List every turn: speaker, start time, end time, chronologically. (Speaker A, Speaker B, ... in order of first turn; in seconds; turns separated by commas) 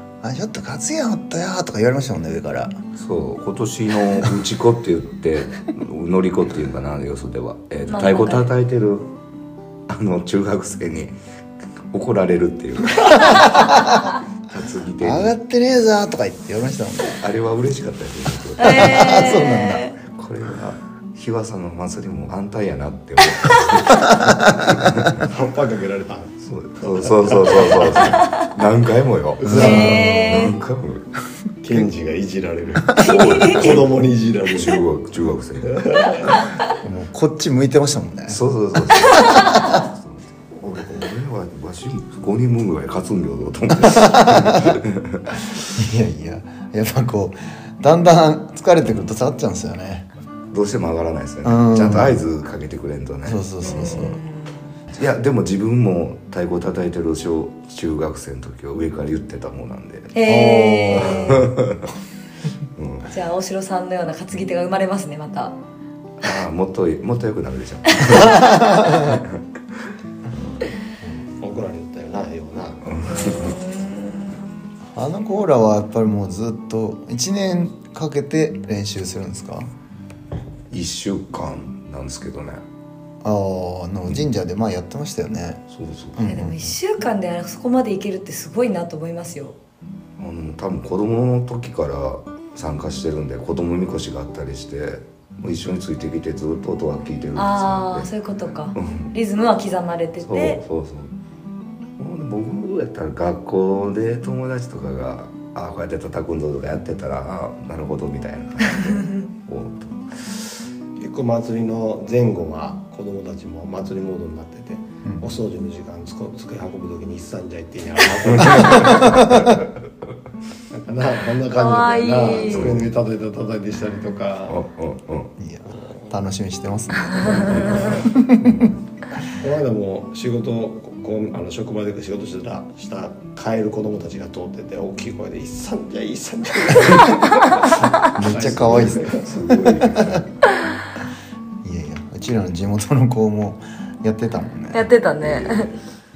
Speaker A: 0.2-2.7, Speaker B: 3.0-9.1, Speaker C: 7.9-8.5, Speaker B: 9.9-11.2, Speaker B: 11.9-13.8, Speaker A: 13.0-14.1, Speaker B: 14.5-15.3, Speaker A: 15.0-17.2, Speaker B: 17.1-25.2, Speaker C: 18.6-19.9, Speaker A: 18.6-19.9, Speaker A: 24.1-24.5, Speaker D: 25.2-28.2, Speaker B: 26.4-31.1, Speaker A: 29.4-30.2, Speaker C: 29.5-30.5, Speaker D: 29.6-29.9, Speaker D: 31.6-34.8, Speaker B: 32.9-36.4, Speaker C: 33.0-33.7, Speaker D: 35.7-36.2, Speaker A: 36.8-39.8, Speaker B: 38.3-45.4, Speaker A: 43.9-44.7, Speaker A: 45.7-50.0, Speaker B: 50.5-54.2, Speaker A: 51.4-52.2, Speaker A: 53.2-54.2, Speaker C: 53.6-54.7, Speaker B: 54.9-60.1, Speaker C: 60.1-61.5, Speaker A: 60.2-61.4, Speaker B: 60.9-61.9, Speaker B: 62.8-63.1, Speaker C: 63.1-65.5, Speaker B: 66.2-69.4, Speaker A: 68.3-69.0, Speaker D: 71.4-73.5, Speaker B: 72.8-73.6, Speaker C: 73.1-74.4, Speaker A: 74.9-79.7, Speaker B: 80.7-82.6, Speaker A: 83.2-85.6, Speaker B: 85.7-86.3, Speaker A: 86.2-86.8, Speaker C: 86.2-89.5, Speaker B: 90.2-98.1, Speaker C: 97.3-100.6, Speaker B: 98.7-99.1, Speaker B: 100.2-101.1, Speaker B: 102.0-110.4, Speaker D: 111.0-119.5, Speaker A: 115.0-115.3, Speaker B: 118.3-119.7, Speaker D: 120.7-124.6, Speaker C: 121.5-122.7, Speaker B: 122.3-122.9, Speaker B: 124.5-125.3, Speaker A: 125.4-128.7, Speaker D: 125.7-126.2, Speaker D: 127.2-128.1, Speaker B: 127.3-128.8, Speaker D: 129.4-140.2, Speaker A: 138.1-139.1, Speaker B: 138.5-140.2, Speaker A: 139.8-140.2, Speaker A: 141.6-144.9, Speaker C: 144.7-145.7, Speaker B: 145.2-145.7